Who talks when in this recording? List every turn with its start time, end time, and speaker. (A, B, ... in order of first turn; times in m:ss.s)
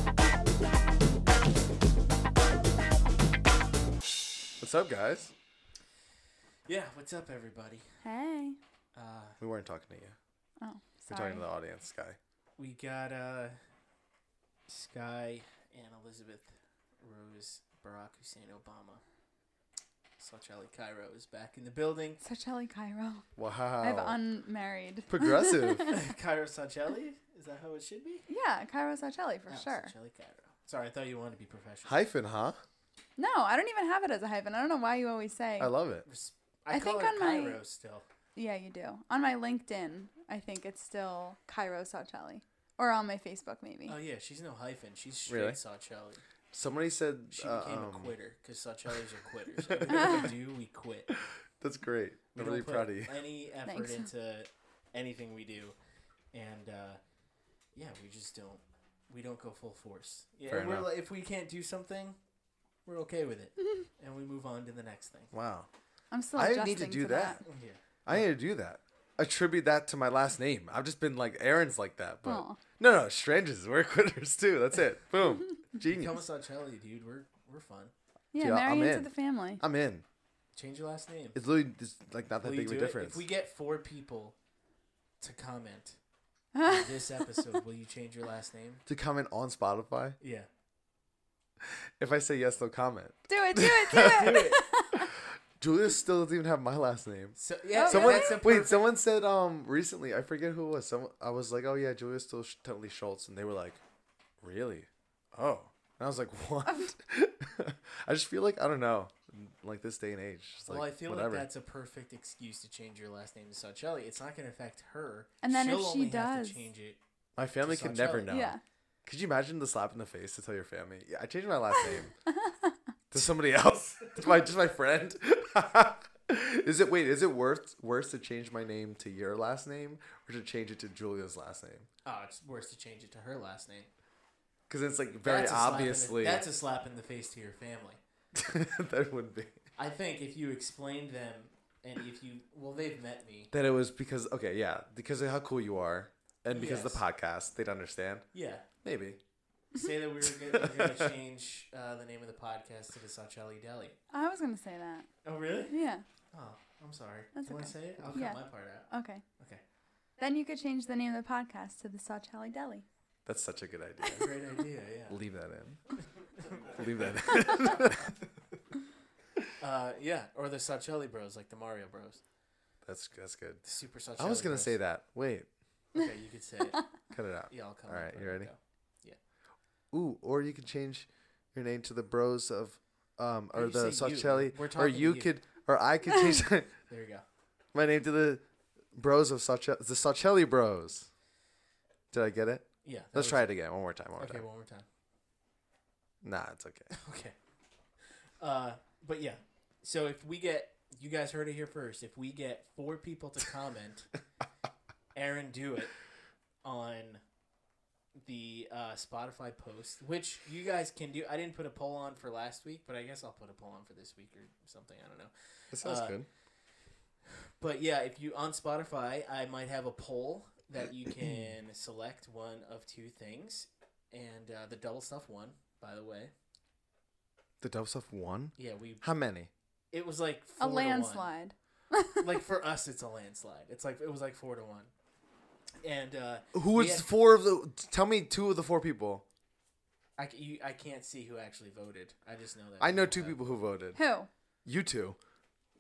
0:04.6-0:05.3 A
0:06.7-0:07.9 B
0:08.0-0:08.6 C
0:08.9-0:09.4 B
0:09.4-0:10.2 A
0:10.6-0:11.4 C
0:11.1-0:12.2 A
0:12.6-0:13.6 B
0:14.7-0:19.0 B
0:20.2-0:22.2 B
0:22.2-0:23.3 C
0:23.4-0:24.2 A
0:23.8-0:26.0 C
0:25.1-0:25.9 A
0:25.9-0:28.3 B
0:28.3-0:29.9 C
0:29.5-0:32.0 B
0:31.8-0:32.6 A
0:33.2-0:35.7 C
0:35.6-0:36.0 A
0:36.0-0:38.0 B
0:36.7-0:37.6 C
0:38.4-0:44.0 C
0:43.8-0:46.2 B
0:45.3-0:45.6 A
0:46.5-0:48.2 A
0:47.3-0:51.1 B
0:49.6-0:50.2 A
0:51.2-0:53.2 A
0:52.3-0:55.7 B
0:53.6-0:54.1 C
0:56.3-0:57.0 B
0:57.7-1:02.2 B
1:00.5-1:00.9 A
1:02.8-1:05.3 B
1:05.3-1:05.7 A
1:06.1-1:07.4 C
1:06.3-1:07.4 A
1:07.4-1:08.2 B
1:08.0-1:16.2 A
1:12.2-1:12.6 C
1:15.8-1:17.9 B
1:18.3-1:19.6 C
1:18.4-1:20.0 A
1:20.5-1:21.4 B
1:21.3-1:23.2 A
1:22.4-1:24.4 B
1:25.2-1:26.0 B
1:26.5-1:27.2 C
1:26.6-1:28.8 B
1:28.8-1:30.2 A
1:30.2-1:30.5 B
1:31.6-1:43.8 A
1:33.3-1:35.1 C
1:34.0-1:34.6 B
1:37.4-1:38.9 B
1:37.7-1:38.4 C
1:44.4-1:51.5 A
1:46.6-1:46.9 C
1:50.7-1:57.0 B
1:55.4-1:56.6 C
1:57.4-2:02.1 A
1:57.6-1:58.4 B
1:58.3-1:58.6 C
2:02.3-2:02.8 C
2:03.1-2:11.9 A
2:12.0-2:13.9 B
2:14.7-2:16.4 A
2:15.2-2:18.0 B
2:18.3-2:19.6 A
2:19.8-2:23.5 B
2:23.5-2:28.3 A
2:26.5-2:27.0 B
2:28.3-2:28.7 B
2:28.8-2:29.2 A
2:29.7-2:34.0 B
2:30.4-2:31.1 A
2:34.1-2:35.1 C
2:35.2-2:35.8 B
2:35.7-2:36.0 C
2:36.3-2:39.6 B
2:37.4-2:39.2 C
2:40.2-2:42.8 C
2:43.2-2:44.3 A
2:44.1-2:45.2 B
2:45.1-2:45.8 A
2:46.4-2:47.3 B
2:46.5-2:48.3 A
2:49.6-2:52.2 B
2:52.8-2:53.6 A
2:53.6-2:54.8 B
2:54.2-2:55.5 A
2:55.9-2:56.8 B
2:57.1-2:58.5 A
2:57.5-2:59.2 B
2:59.9-3:06.7 A
3:03.5-3:05.3 B
3:06.9-3:07.2 B
3:07.7-3:08.4 A
3:08.9-3:11.1 A
3:12.1-3:14.4 A
3:12.8-3:13.6 B
3:14.2-3:14.8 B
3:16.2-3:16.9 A
3:16.9-3:17.3 B
3:18.4-3:24.1 B
3:25.1-3:25.9 B
3:26.6-3:27.2 B
3:28.2-3:36.2 B
3:35.7-3:36.3 A
3:37.6-3:46.3 B
3:41.2-3:41.5 A
3:47.6-3:49.5 A
3:48.6-3:49.0 B
3:49.9-3:51.2 B
3:50.6-3:52.3 C
3:52.2-3:54.9 B
3:55.8-3:57.1 B
3:56.5-3:59.2 A
4:00.2-4:03.4 B
4:02.8-4:04.0 A
4:03.9-4:04.3 C
4:04.6-4:05.2 A